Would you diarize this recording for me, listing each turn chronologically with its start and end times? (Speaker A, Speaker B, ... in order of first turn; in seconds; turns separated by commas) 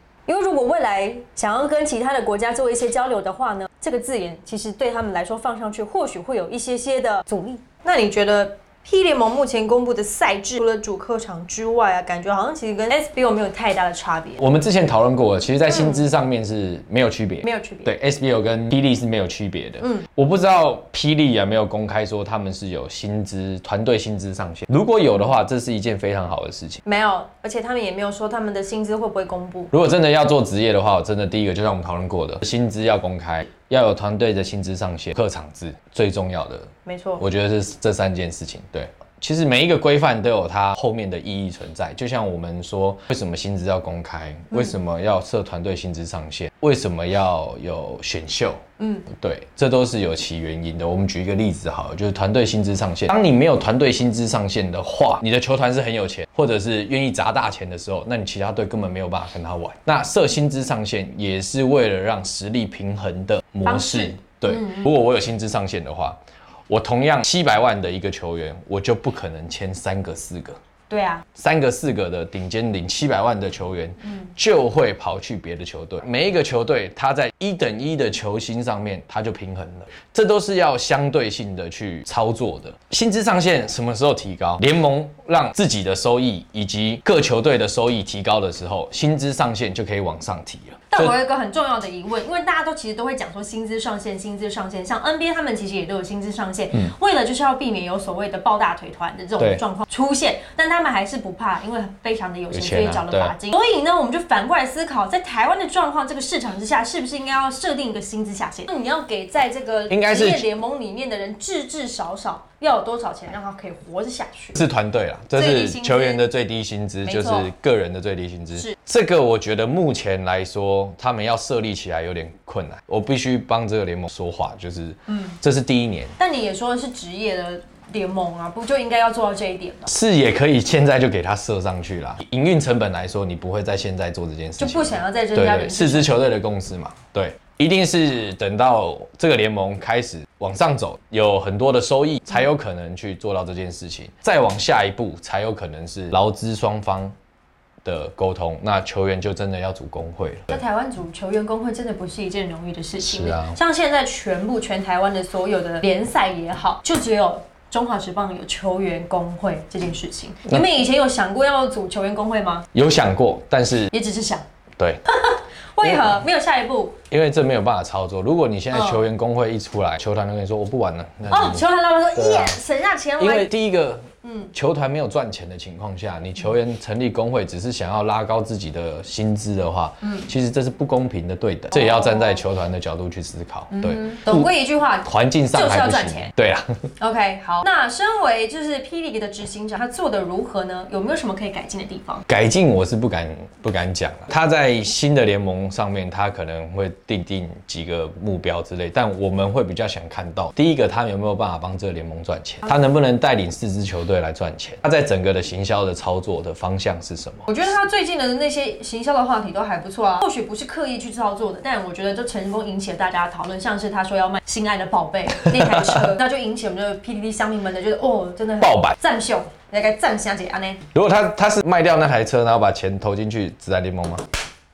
Speaker A: 0.3-14.4, Speaker B: 14.4-26.8, Speaker A: 15.7-16.0, Speaker A: 17.4-17.9, Speaker A: 26.8-29.7, Speaker B: 29.7-66.2, Speaker A: 36.9-37.2, Speaker A: 48.8-49.0, Speaker A: 63.6-64.9, Speaker B: 66.7-70.6, Speaker A: 70.9-71.2, Speaker B: 71.3-91.1, Speaker A: 90.9-114.6, Speaker B: 102.5-103.3, Speaker B: 109.9-110.5, Speaker B: 114.5-126.1, Speaker A: 115.3-116.2, Speaker A: 117.0-117.5, Speaker A: 125.1-125.4, Speaker A: 126.2-129.9, Speaker B: 129.9-147.1, Speaker A: 134.6-136.1, Speaker B: 147.8-150.6, Speaker A: 150.5-162.7, Speaker B: 153.0-153.6, Speaker B: 162.7-163.9, Speaker A: 163.9-164.4, Speaker A: 165.1-166.9, Speaker B: 165.8-166.2, Speaker B: 167.1-172.6, Speaker A: 168.7-169.0, Speaker A: 171.3-173.5, Speaker B: 173.2-184.5, Speaker A: 174.2-174.5, Speaker A: 183.7-186.3, Speaker B: 185.0-186.8, Speaker A: 187.0-192.2, Speaker B: 192.3-207.5, Speaker A: 207.5-220.8, Speaker B: 215.4-216.1, Speaker B: 218.6-219.0, Speaker B: 220.9-224.2